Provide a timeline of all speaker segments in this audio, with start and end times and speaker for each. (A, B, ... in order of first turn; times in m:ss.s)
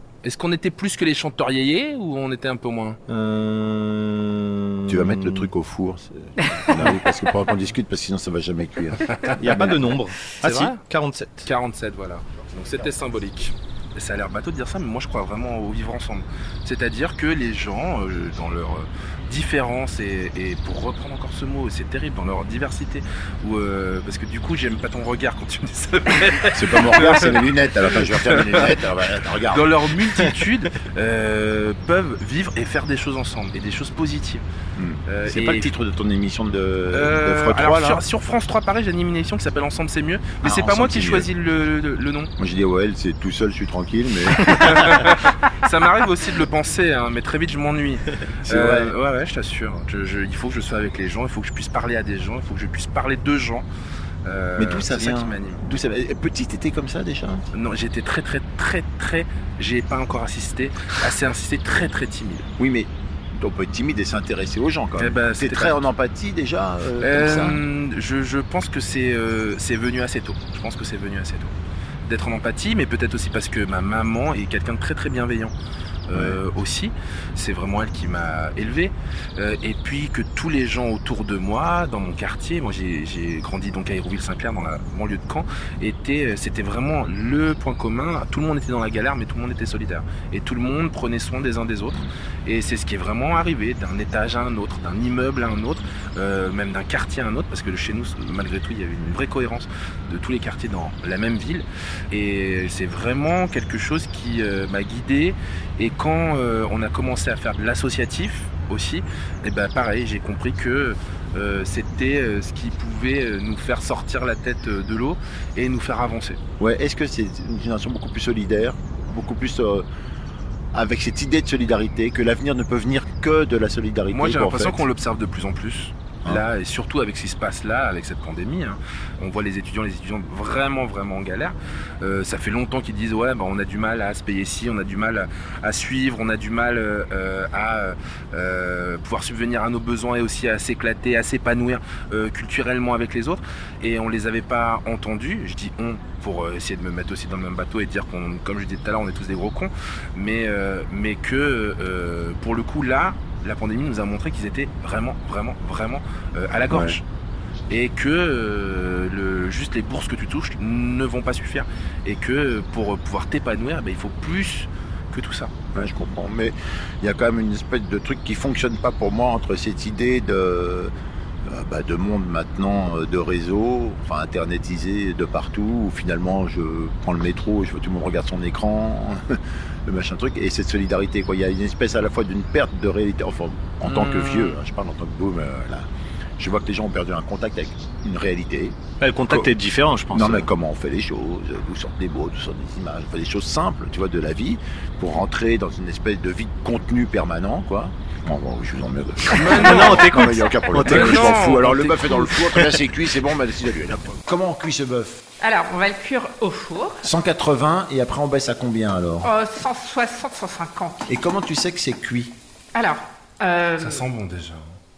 0:00.2-0:03.0 A
0:03.1-0:05.5 B
0:04.9-0:09.8 C
0:06.4-0:06.7 D
0:09.3-0:09.7 A
0:09.4-0:11.5 B
0:10.4-0:10.8 A
0:11.4-0:28.8 A
0:26.5-0:29.9 C
0:29.5-0:34.4 A
0:34.8-0:38.0 C
0:35.1-0:35.7 A
0:36.9-0:42.3 A
0:40.4-0:41.3 C
0:42.4-0:45.0 C
0:44.4-0:53.7 A
0:48.5-0:49.0 C
0:54.2-0:55.6 A
0:54.6-0:57.4 C
0:57.5-1:02.5 A
1:02.6-1:07.6 C
1:05.0-1:05.8 A
1:07.0-1:15.5 A
1:16.1-1:56.4 A
1:16.1-1:16.4 C
1:56.6-1:59.9 C
2:00.7-2:04.8 C
2:04.1-2:37.0 A
2:36.7-2:37.0 C
2:37.7-2:45.5 A
2:45.7-2:50.9 C
2:51.4-3:09.5 C
3:03.8-3:04.6 A
3:09.0-3:10.5 B
3:10.1-3:25.2 C
3:19.3-3:21.9 A
3:19.6-3:22.8 B
3:25.4-3:27.1 D
3:27.0-3:29.3 C
3:29.2-3:31.1 D
3:31.1-3:32.4 C
3:32.8-3:34.1 D
3:33.8-3:34.8 A